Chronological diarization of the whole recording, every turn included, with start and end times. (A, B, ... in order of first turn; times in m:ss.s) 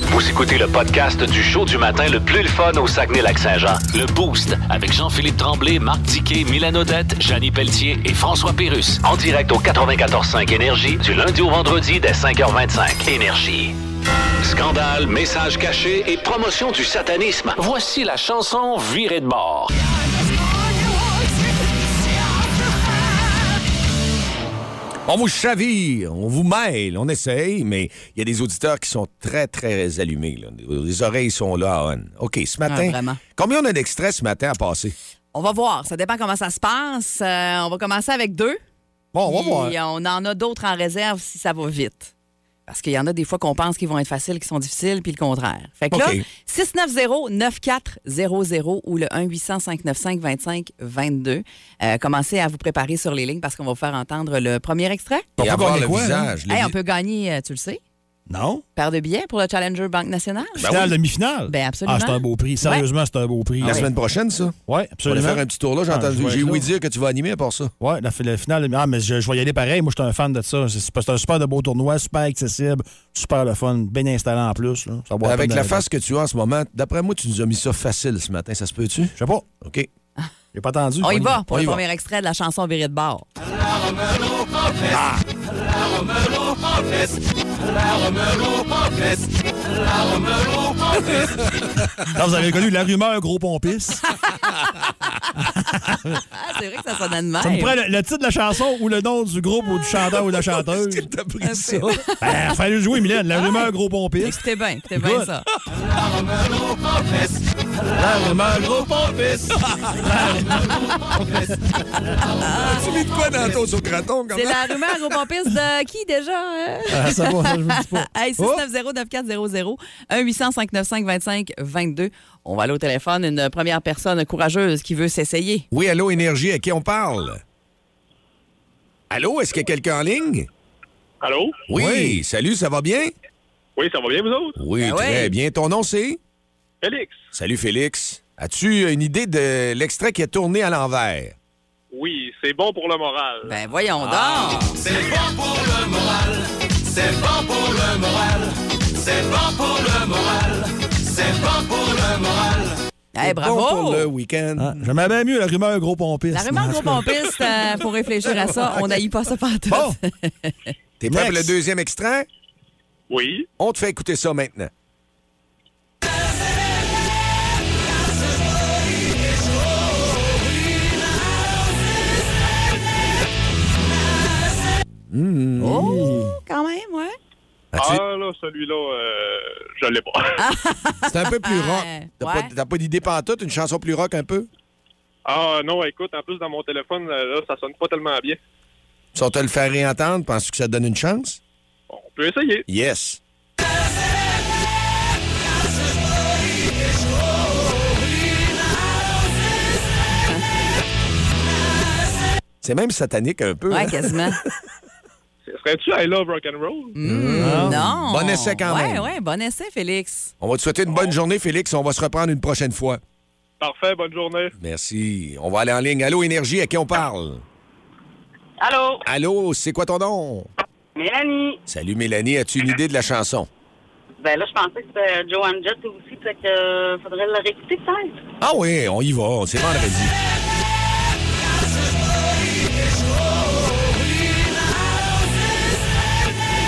0:00.1-0:13.8 A
0:14.4-0:19.7 A
0:25.1-0:35.0 B
0:32.7-0:33.2 C
0:35.3-0:38.6 C
0:39.1-0:39.8 D
0:39.2-0:42.1 C
0:42.7-0:55.3 C
0:45.9-0:46.2 B
0:55.4-0:56.3 D
0:55.4-0:56.7 B
0:56.5-0:57.8 C
0:58.3-0:58.6 D
0:58.8-1:00.7 C
1:00.6-1:00.9 B
1:00.6-1:03.9 D
1:01.5-1:02.9 C
1:03.6-1:07.7 B
1:04.7-1:06.7 D
1:07.8-1:15.8 D
1:15.2-1:19.9 B
1:19.2-1:19.5 D
1:20.5-1:21.4 D
1:21.0-1:23.3 C
1:21.5-1:21.8 B
1:32.0-1:34.0 D
1:35.7-1:36.2 D
1:36.3-1:37.8 C
1:37.4-1:41.1 D
1:40.1-1:42.0 B
1:41.4-1:42.3 C
1:42.2-1:45.3 D
1:44.2-1:45.5 C
1:48.0-1:51.5 D
1:52.4-1:52.8 C
1:52.4-1:54.7 B
1:54.3-2:05.7 C
1:56.9-1:58.6 D
2:05.7-2:07.4 B
2:09.1-2:10.5 B
2:11.2-2:11.6 E
2:11.7-2:13.1 B
2:11.7-2:12.2 D
2:13.8-2:14.6 E
2:14.6-2:16.2 B
2:14.8-2:15.3 C
2:16.8-2:17.3 E
2:17.3-2:21.4 B
2:21.9-2:23.5 E
2:23.4-2:24.7 C
2:24.0-2:24.8 B
2:33.1-2:34.1 C
2:33.2-2:34.9 B
2:34.6-2:37.2 D
2:36.3-2:40.7 C
2:39.7-2:40.0 D
2:41.0-2:42.3 B
2:41.1-2:41.6 D
2:43.1-2:43.5 E
2:43.6-2:44.7 B
2:55.1-2:56.3 B
2:55.6-2:57.2 C
2:55.8-2:56.1 D
2:57.7-2:58.0 B
2:57.8-3:00.4 E
3:00.4-3:02.5 C
3:01.1-3:04.5 B
3:05.3-3:08.4 E
3:09.1-3:11.4 B
3:11.9-3:12.7 E
3:12.7-3:13.2 B
3:22.6-3:24.2 B
3:23.7-3:24.4 C
3:25.4-3:27.0 E
3:26.9-3:30.3 C
3:27.0-3:29.1 B
3:27.4-3:27.8 D
3:30.4-3:33.0 B
3:33.6-3:34.5 E
3:34.6-3:37.4 B
3:38.6-3:39.0 F
3:39.1-3:40.5 B
3:41.0-3:41.6 F
3:41.7-3:43.5 B
3:44.2-3:48.2 F
3:48.4-3:50.1 B